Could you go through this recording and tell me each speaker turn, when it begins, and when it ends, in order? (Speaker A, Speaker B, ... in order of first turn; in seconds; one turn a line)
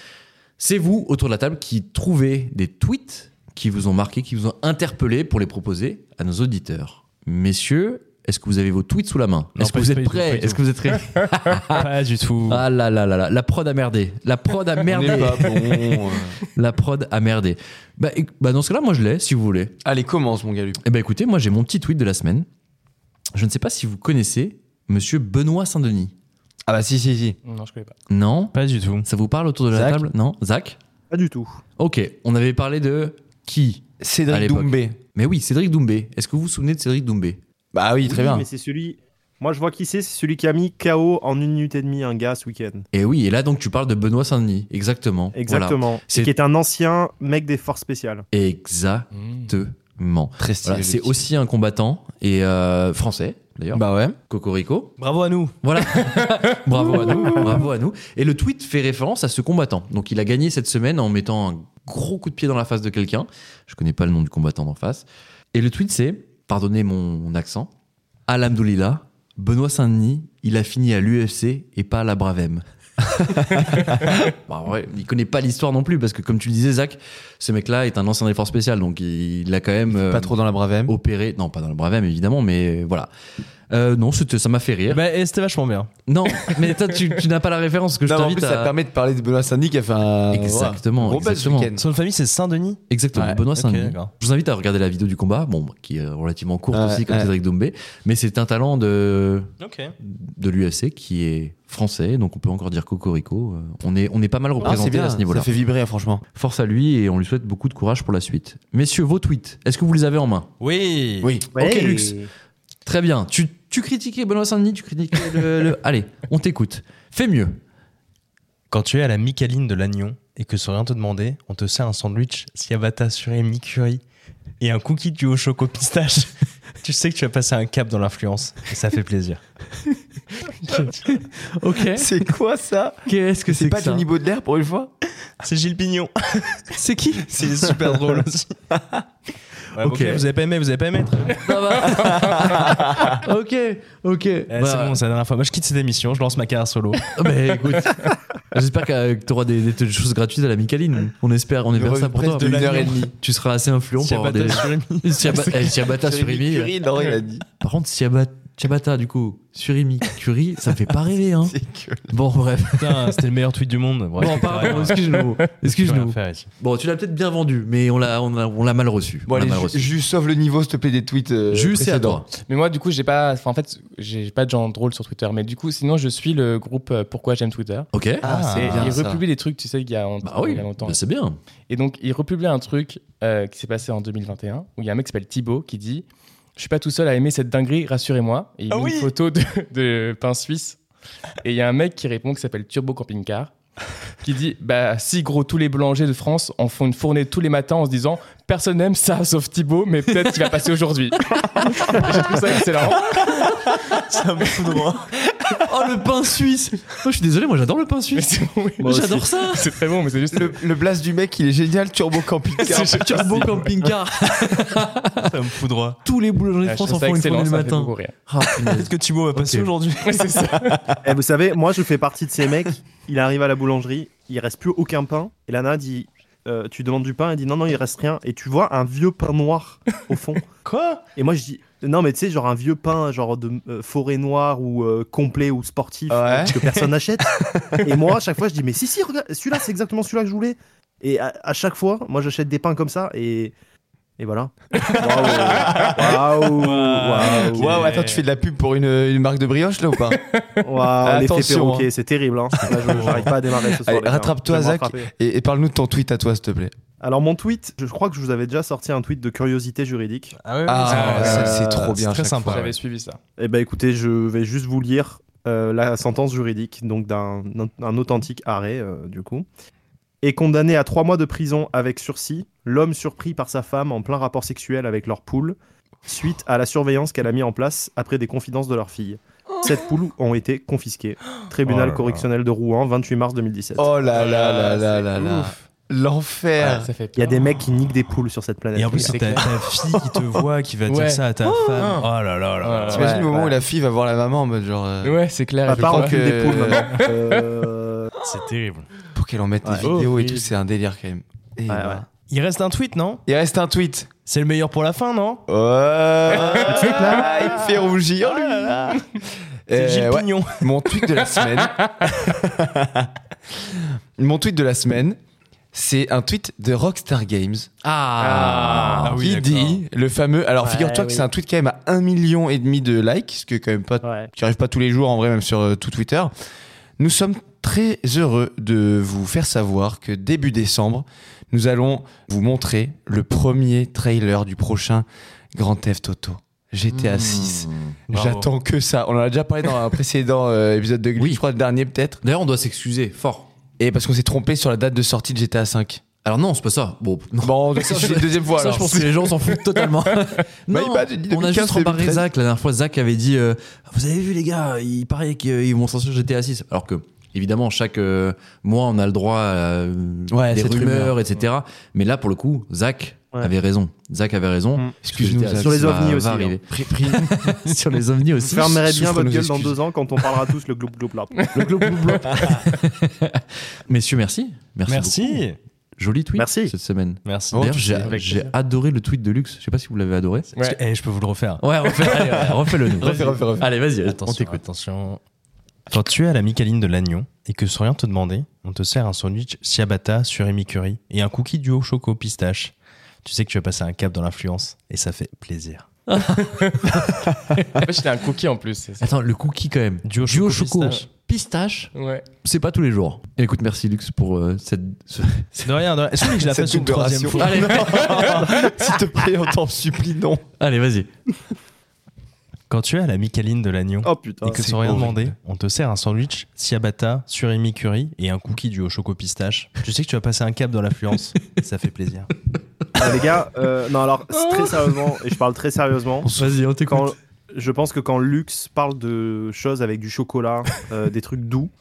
Speaker A: 0.6-11.9
Speaker B: 9.6-10.6
Speaker B: 11.7-12.6
Speaker A: 12.5-15.9
Speaker C: 14.8-16.4
Speaker A: 16.5-19.7
Speaker C: 19.8-20.8
Speaker A: 20.8-22.5
Speaker A: 23.3-26.1
Speaker C: 26.7-27.4
Speaker D: 27.5-27.9
Speaker A: 28.1-30.8
Speaker B: 28.5-29.1
Speaker C: 29.7-30.1
Speaker E: 31.1-31.6
Speaker A: 31.8-37.4
Speaker C: 34.0-35.0
Speaker C: 37.7-38.5
Speaker E: 38.0-42.9
Speaker A: 42.9-46.3
Speaker E: 45.3-48.3
Speaker A: 48.3-55.0
Speaker D: 49.2-49.5
Speaker C: 50.4-51.2
Speaker C: 53.7-54.2
Speaker B: 55.0-55.5
Speaker A: 55.6-67.7
Speaker D: 56.0-56.4
Speaker C: 56.8-57.7
Speaker A: 68.3-72.6
Speaker C: 73.2-74.2
Speaker A: 73.5-80.3
Speaker C: 79.9-80.9
Speaker A: 80.9-83.1
Speaker A: 83.7-85.0
Speaker B: 84.9-85.9
Speaker A: 86.1-88.7
Speaker C: 88.1-91.9
Speaker A: 90.3-91.7
Speaker B: 91.8-92.8
Speaker A: 92.9-105.5
Speaker C: 93.1-93.4
Speaker B: 93.5-94.1
Speaker C: 96.7-97.3
Speaker B: 99.6-99.9
Speaker C: 104.6-106.2
Speaker A: 106.3-110.5
Speaker B: 110.6-111.3
Speaker C: 111.2-111.5
Speaker E: 111.5-112.3
Speaker A: 111.5-112.2
Speaker A: 112.8-117.6
Speaker B: 118.7-124.0
Speaker B: 124.6-129.4
Speaker A: 130.7-132.1
Speaker C: 131.9-134.9
Speaker A: 133.1-134.1
Speaker B: 135.4-136.8
Speaker A: 136.8-137.2
Speaker C: 137.1-139.0
Speaker B: 137.3-138.5
Speaker B: 139.7-141.4
Speaker A: 139.8-140.2
Speaker A: 141.4-145.0
Speaker C: 142.2-142.8
Speaker B: 144.5-147.0
Speaker A: 147.1-156.7
Speaker C: 151.7-153.1
Speaker B: 152.4-153.0
Speaker B: 154.0-155.8
Speaker C: 155.3-157.5
Speaker A: 157.6-161.6
Speaker C: 161.4-162.1
Speaker A: 162.1-163.2
Speaker B: 162.8-166.5
Speaker A: 164.2-169.9
Speaker D: 164.8-165.3
Speaker C: 169.3-172.3
Speaker A: 171.5-172.3
Speaker D: 172.5-177.9
Speaker A: 177.9-178.9
Speaker C: 178.2-179.2
Speaker B: 178.2-178.9
Speaker D: 178.6-181.0
Speaker A: 180.2-181.4
Speaker D: 181.7-190.8
Speaker B: 188.7-189.1
Speaker D: 191.4-193.5
Speaker D: 194.2-203.7
Speaker B: 204.0-205.1
Speaker A: 205.5-209.8
Speaker D: 208.1-210.6
Speaker C: 210.3-213.4
Speaker D: 212.7-213.9
Speaker A: 212.7-215.3
Speaker B: 215.2-216.0
Speaker A: 216.0-219.7
Speaker D: 216.6-218.2
Speaker B: 218.7-220.9
Speaker D: 220.0-221.0
Speaker E: 221.0-230.4
Speaker B: 230.7-231.0
Speaker E: 231.2-243.5
Speaker C: 236.1-236.6
Speaker E: 244.2-247.9
Speaker D: 244.8-245.9
Speaker C: 244.9-250.2
Speaker D: 246.9-248.2
Speaker D: 250.1-250.7
Speaker E: 250.6-255.1
Speaker C: 251.0-251.9
Speaker C: 252.6-256.7
Speaker B: 252.6-253.3
Speaker E: 257.0-260.4
Speaker B: 260.4-262.7
Speaker C: 260.7-262.7
Speaker D: 260.9-261.5
Speaker E: 261.1-262.0
Speaker D: 262.4-263.2
Speaker E: 263.4-269.5
Speaker E: 270.2-283.9
Speaker B: 281.6-282.2
Speaker C: 283.8-286.9
Speaker D: 284.2-285.6
Speaker D: 286.6-287.5
Speaker E: 287.1-289.5
Speaker B: 288.7-293.1
Speaker D: 290.9-292.1
Speaker D: 292.6-293.6
Speaker C: 292.9-296.9
Speaker E: 293.0-293.3
Speaker D: 295.0-297.5
Speaker E: 295.6-298.1
Speaker B: 298.2-298.9
Speaker C: 299.1-302.1
Speaker D: 299.8-300.4
Speaker E: 301.7-302.0
Speaker B: 302.3-303.2
Speaker C: 303.3-304.1
Speaker B: 304.3-305.4
Speaker C: 305.5-315.2
Speaker D: 306.4-307.3
Speaker B: 309.7-310.7
Speaker C: 315.7-317.7
Speaker A: 317.8-319.2
Speaker D: 318.4-319.1
Speaker B: 319.0-319.8
Speaker C: 319.2-326.3
Speaker E: 320.6-321.3
Speaker E: 324.0-324.3
Speaker C: 327.0-342.2
Speaker A: 336.9-338.0
Speaker B: 338.1-338.5
Speaker A: 342.2-343.5
Speaker C: 343.8-346.0
Speaker A: 346.2-368.8
Speaker C: 347.4-349.3
Speaker D: 349.4-350.2
Speaker C: 350.7-352.3
Speaker C: 360.3-361.2
Speaker C: 364.8-366.1
Speaker E: 365.6-366.6
Speaker C: 366.8-367.5
Speaker E: 368.4-371.4
Speaker C: 368.7-369.8
Speaker D: 371.4-372.7
Speaker A: 371.5-375.4
Speaker B: 374.9-375.6
Speaker A: 376.0-380.5
Speaker E: 376.4-376.7
Speaker B: 377.2-377.9
Speaker C: 377.5-378.1
Speaker D: 378.1-378.5
Speaker B: 380.5-381.6
Speaker A: 381.6-384.6
Speaker D: 382.0-382.6
Speaker B: 383.0-383.5
Speaker C: 383.0-383.7
Speaker B: 384.1-385.2
Speaker B: 385.9-395.9
Speaker A: 396.1-397.9
Speaker D: 396.3-396.9
Speaker D: 397.8-399.1
Speaker A: 399.0-405.8
Speaker B: 400.0-401.1
Speaker D: 401.9-402.3
Speaker B: 405.6-408.1
Speaker C: 406.4-410.4
Speaker A: 407.4-408.5
Speaker A: 410.6-411.1
Speaker B: 412.7-422.3
Speaker E: 414.0-414.7
Speaker C: 414.5-415.4
Speaker E: 422.9-426.3
Speaker A: 426.2-427.1
Speaker E: 426.9-431.7